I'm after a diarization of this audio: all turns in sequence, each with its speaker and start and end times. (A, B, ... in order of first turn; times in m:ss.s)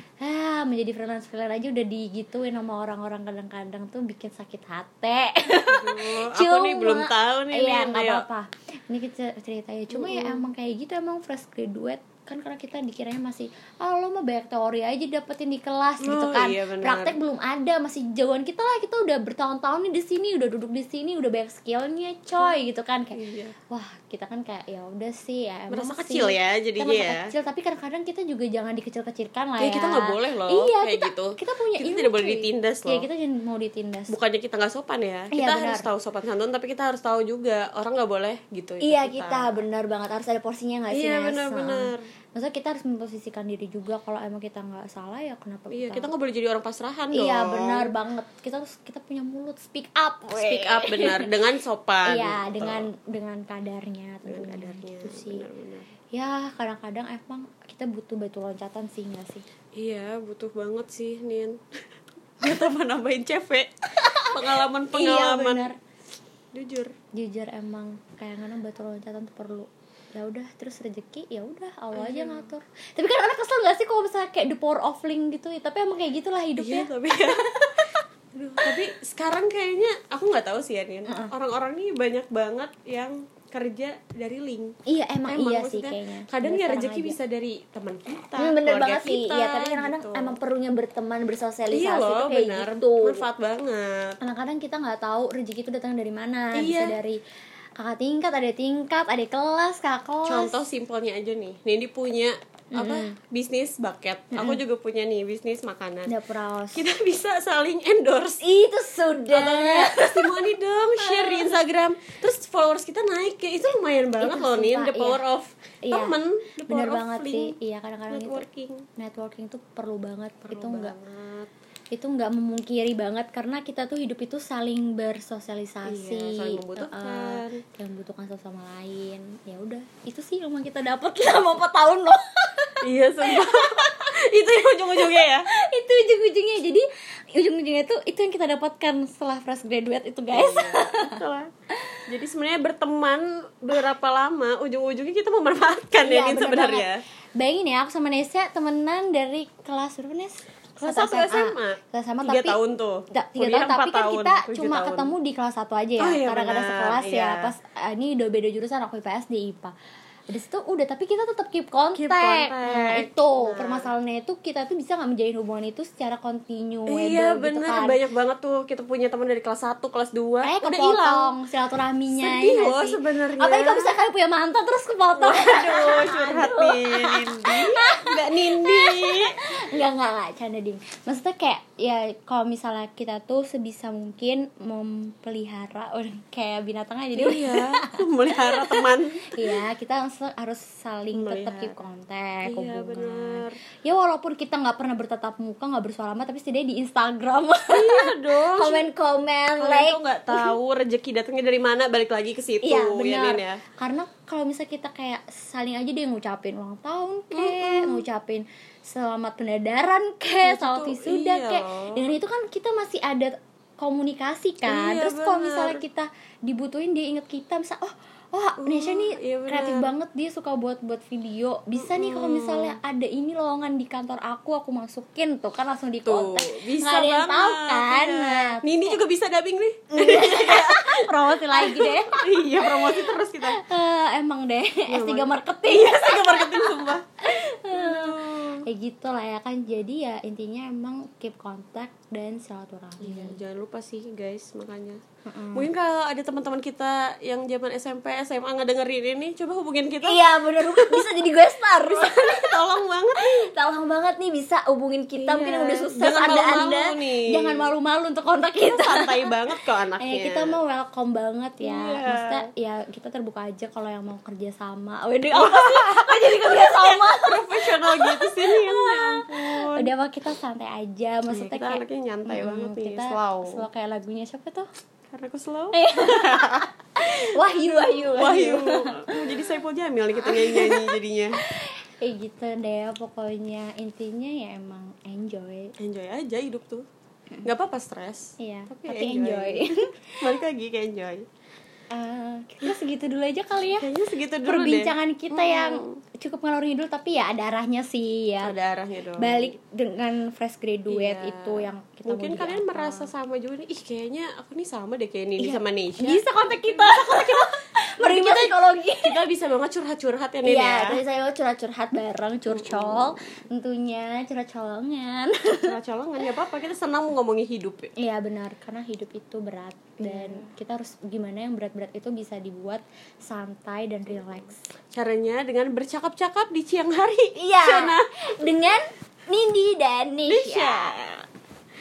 0:00.2-0:23.2 A
0:05.7-0:08.2 B
0:09.9-0:10.4 B
0:16.0-0:17.2 B
0:23.1-0:23.6 B
0:23.7-0:34.1 A
0:25.7-0:27.3 B
0:29.6-0:33.1 B
0:34.1-0:39.6 B
0:35.3-0:35.9 A
0:38.8-0:46.1 A
0:40.9-0:42.1 B
0:45.7-0:47.9 B
0:47.1-0:51.3 A
0:50.3-0:52.9 B
0:52.0-0:55.4 A
0:54.2-0:55.9 B
0:56.1-0:59.4 A
0:59.7-1:01.8 B
1:02.4-1:05.7 B
1:04.0-1:05.8 A
1:06.5-1:06.9 B
1:07.1-1:18.7 A
1:11.9-1:12.5 B
1:16.6-1:17.9 B
1:18.4-1:30.4 B
1:21.1-1:21.3 A
1:24.8-1:27.2 A
1:28.4-1:33.2 A
1:31.7-1:34.2 B
1:34.2-1:37.2 A
1:36.5-1:37.0 B
1:37.8-1:40.6 A
1:40.2-1:46.1 B
1:42.7-1:43.2 A
1:44.3-1:44.6 A
1:46.1-1:46.8 A
1:46.7-1:48.4 B
1:48.4-1:51.5 A
1:49.3-1:57.5 B
1:54.2-1:55.2 A
1:55.8-1:58.4 A
1:58.1-1:58.8 B
1:59.0-2:00.9 A
2:00.5-2:01.5 B
2:01.9-2:13.8 A
2:05.8-2:07.6 B
2:12.8-2:15.5 B
2:15.0-2:21.2 A
2:20.3-2:21.5 B
2:22.1-2:27.0 B
2:26.0-2:32.6 A
2:30.8-2:35.1 B
2:33.1-2:39.7 A
2:36.0-2:37.5 B
2:40.3-2:48.0 A
2:41.9-2:43.9 B
2:46.9-2:51.4 B
2:50.4-3:20.5 A
2:52.1-2:54.0 B
2:55.1-2:59.6 B
3:07.1-3:09.5 B
3:11.1-3:11.7 B
3:12.4-3:13.6 B
3:17.7-3:18.9 B
3:19.6-3:23.6 B
3:22.6-3:49.0 A
3:27.3-3:28.0 B
3:30.4-3:32.1 B
3:34.6-3:35.8 B
3:38.6-3:39.9 B
3:41.7-3:42.8 B
3:46.0-3:53.6 B
3:49.9-4:03.4 A
3:54.9-3:57.0 B
3:57.7-3:58.6 B
4:03.0-4:05.0 B
4:05.2-4:05.7 A
4:05.5-4:11.1 B
4:10.0-4:12.6 A
4:11.8-4:13.5 B
4:13.2-4:19.3 A
4:15.2-4:17.7 B
4:18.6-4:20.6 B
4:20.0-4:34.6 A
4:21.6-4:22.4 B
4:25.3-4:29.9 B
4:31.3-4:33.6 B
4:35.1-4:41.4 B
4:35.7-4:39.2 A
4:40.2-4:45.7 A
4:45.8-4:46.8 B
4:47.4-4:51.2 B
4:48.4-4:50.2 A
4:51.9-4:53.9 A
4:53.8-4:56.0 B
4:54.4-4:58.5 A
4:58.4-4:59.5 B
4:59.2-5:03.1 A
5:00.9-5:07.4 B
5:05.4-5:09.2 A
5:08.0-5:11.0 B
5:10.4-5:15.7 A
5:12.5-5:13.1 B
5:15.6-5:17.9 B
5:18.0-5:24.6 A
5:20.0-5:20.5 B
5:24.9-5:28.1 B
5:27.4-5:30.9 A
5:30.3-5:31.2 B